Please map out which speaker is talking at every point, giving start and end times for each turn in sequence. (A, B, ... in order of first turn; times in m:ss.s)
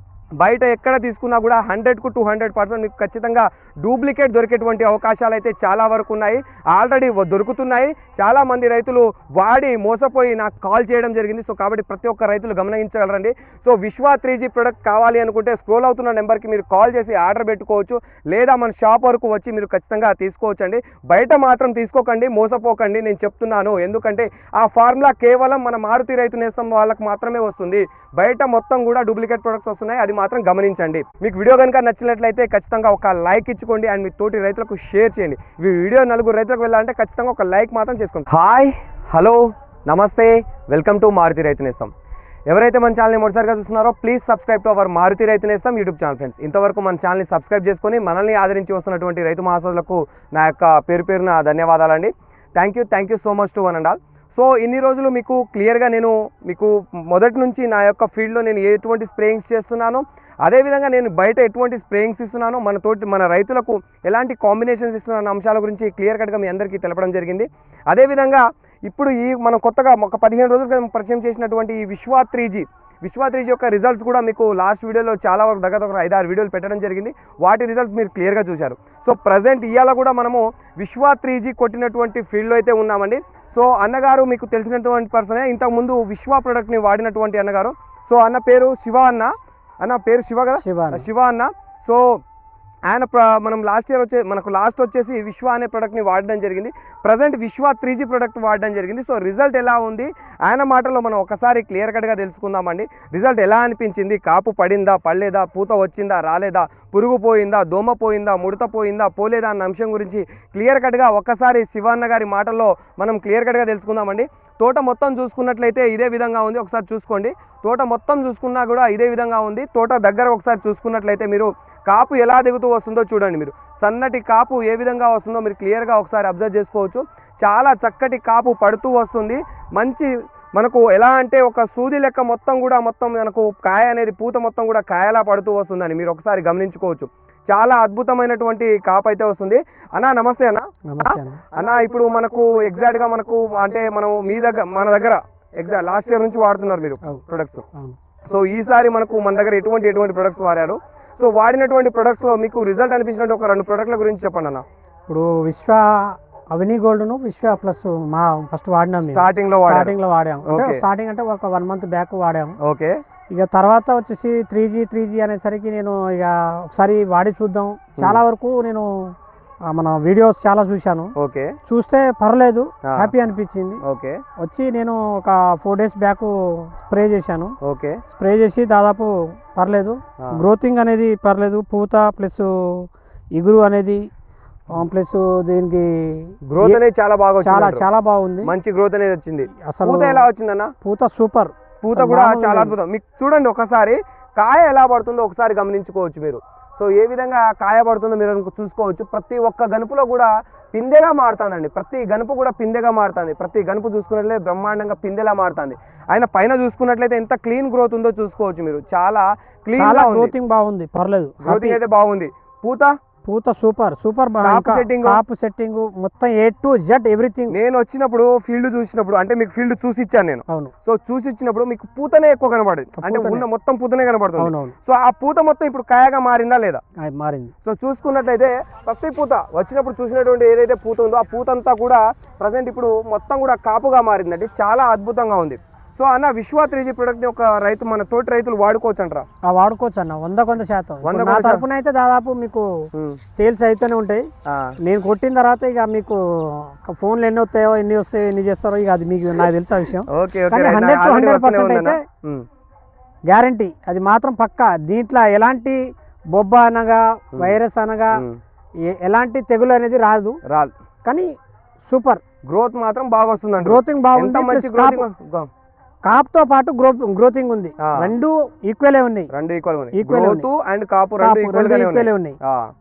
0:00.4-0:41.9 A
0:42.5-1:32.2 A
1:30.6-1:31.0 B
1:32.9-2:27.6 A
2:20.9-2:21.4 B
2:28.2-2:34.6 A
2:35.1-2:42.6 B
2:39.0-2:39.9 A
2:40.4-2:40.8 A
2:42.6-2:43.0 A
2:43.3-2:49.1 B
2:49.7-2:51.1 B
2:51.2-2:51.6 A
2:51.6-2:53.8 B
2:52.8-2:53.1 A
2:53.8-2:54.2 A
2:54.4-2:57.5 B
2:57.6-2:58.0 A
2:58.1-3:04.0 B
3:00.2-3:00.4 A
3:04.7-3:06.8 B
3:06.5-3:07.8 A
3:07.4-3:08.5 B
3:08.4-3:10.7 A
3:09.6-3:10.2 B
3:10.8-3:12.7 B
3:11.8-3:30.3 A
3:29.7-3:31.8 B
3:31.4-3:32.9 A
3:33.2-3:37.6 B
3:34.4-3:35.2 A
3:37.5-3:46.8 A
3:43.0-3:43.4 B
3:44.4-3:44.7 B
3:47.0-3:47.5 B
3:47.6-3:59.2 A
3:59.4-4:02.7 B
4:01.0-4:01.6 A
4:02.9-4:03.2 A
4:03.3-4:04.2 B
4:04.4-4:04.7 A
4:04.8-4:12.0 B
4:10.1-4:12.4 A
4:13.3-4:18.2 B
4:18.1-4:18.4 A
4:18.8-4:20.4 B
4:20.4-4:20.7 A
4:21.0-4:21.3 B
4:21.8-4:22.2 B
4:22.4-4:25.5 A
4:23.6-4:25.1 B
4:26.0-4:29.3 B
4:27.8-4:28.1 A
4:29.3-4:32.7 A
4:29.9-4:30.5 B
4:31.2-4:32.4 B